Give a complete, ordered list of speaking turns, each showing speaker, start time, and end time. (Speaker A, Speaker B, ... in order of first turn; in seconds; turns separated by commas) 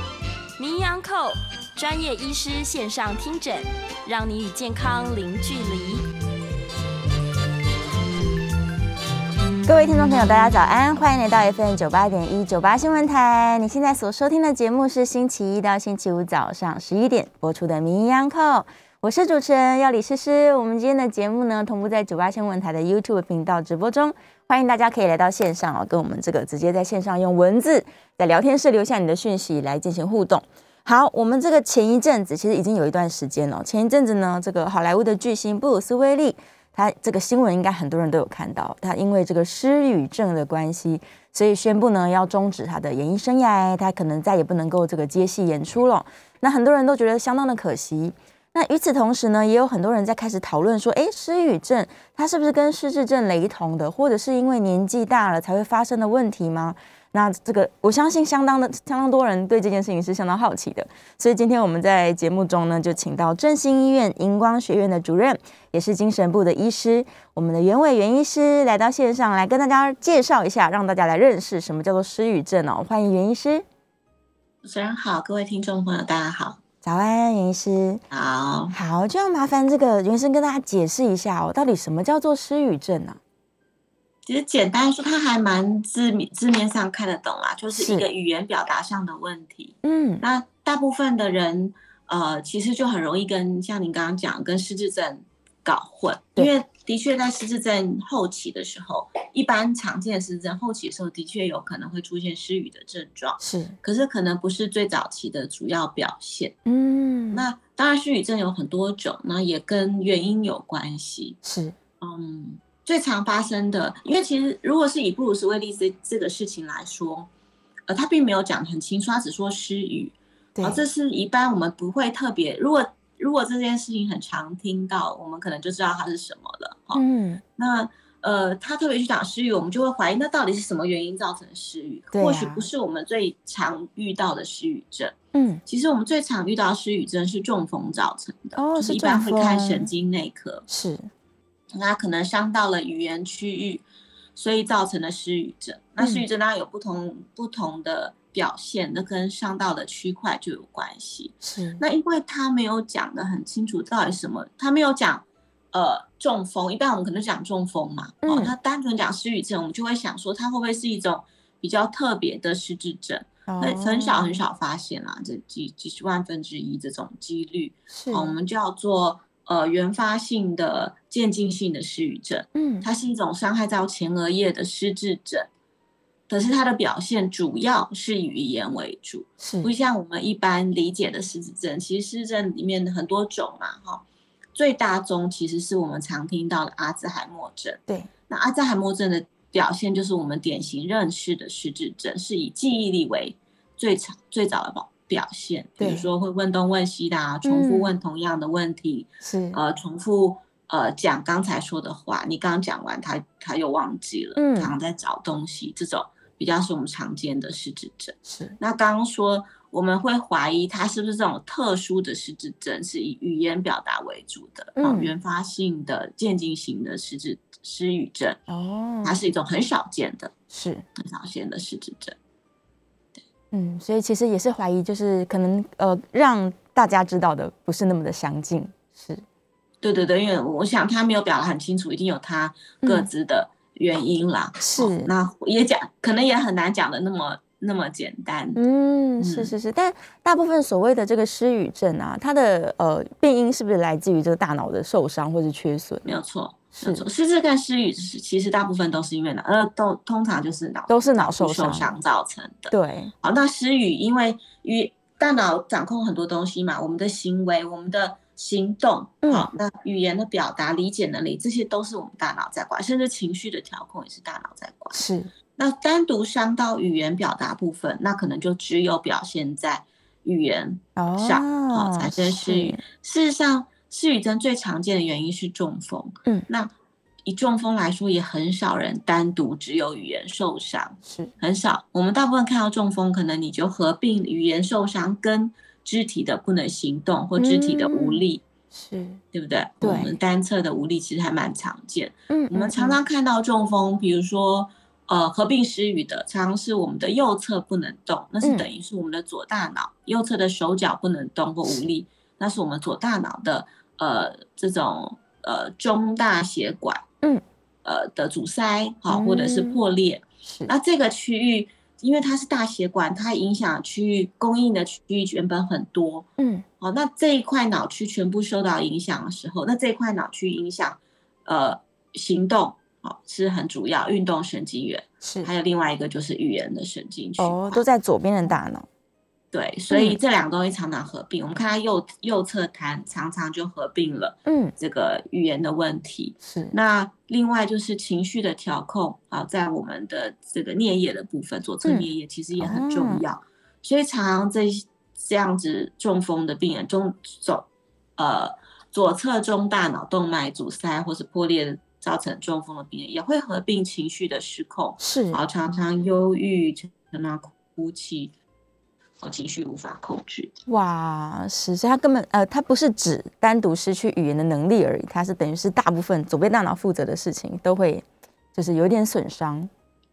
Speaker A: 0.6-6.0, Speaker B: 9.6-73.6, Speaker C: 74.6-76.6, Speaker B: 76.8-78.0, Speaker C: 78.1-78.7, Speaker B: 78.7-83.2, Speaker C: 84.2-106.6, Speaker B: 87.7-88.0, Speaker B: 89.8-90.2, Speaker B: 103.4-103.8, Speaker B: 106.7-107.5, Speaker C: 107.3-111.4, Speaker B: 111.4-111.7, Speaker C: 112.0-117.3, Speaker C: 117.9-127.0, Speaker B: 120.5-120.8, Speaker B: 126.9-127.4, Speaker C: 127.5-135.1, Speaker B: 132.1-132.7, Speaker B: 135.3-135.6, Speaker C: 135.7-140.6, Speaker B: 138.6-139.9, Speaker B: 140.7-141.1, Speaker C: 141.7-143.8, Speaker C: 144.3-175.5, Speaker B: 146.0-146.2, Speaker B: 151.4-151.8, Speaker B: 158.2-158.5, Speaker B: 163.5-164.4, Speaker B: 167.9-168.3, Speaker B: 172.5-172.8, Speaker C: 176.3-184.0, Speaker B: 179.4-179.7, Speaker C: 184.5-218.4, Speaker B: 195.8-196.1, Speaker B: 197.4-197.9, Speaker B: 199.2-199.6, Speaker B: 204.4-204.7, Speaker B: 208.3-208.6, Speaker B: 214.8-215.1, Speaker B: 218.5-219.2, Speaker C: 219.0-220.3, Speaker B: 220.5-220.8, Speaker C: 220.9-222.2, Speaker B: 223.5-229.2, Speaker C: 229.8-238.6, Speaker B: 232.8-233.1, Speaker B: 234.6-235.1, Speaker B: 238.6-246.1, Speaker C: 239.2-239.5, Speaker C: 246.0-265.0, Speaker B: 246.8-247.1, Speaker B: 250.9-251.9, Speaker B: 252.7-253.1, Speaker B: 259.2-259.5, Speaker B: 264.9-265.3, Speaker C: 265.6-276.7, Speaker B: 270.9-272.8, Speaker C: 277.2-288.4, Speaker B: 281.1-281.3, Speaker B: 287.4-288.2, Speaker B: 288.7-289.2, Speaker C: 289.3-307.0, Speaker B: 289.8-290.1, Speaker B: 292.3-293.0, Speaker B: 298.4-298.7, Speaker C: 307.8-316.3, Speaker B: 309.1-309.8, Speaker B: 310.4-310.7, Speaker B: 316.4-316.6, Speaker C: 316.8-327.8, Speaker B: 325.2-325.5, Speaker B: 327.4-328.9, Speaker C: 329.5-358.3, Speaker B: 329.9-330.2, Speaker B: 334.4-334.7, Speaker B: 336.4-336.7, Speaker B: 341.8-343.2, Speaker B: 355.0-355.4, Speaker C: 359.2-360.5, Speaker B: 360.7-369.7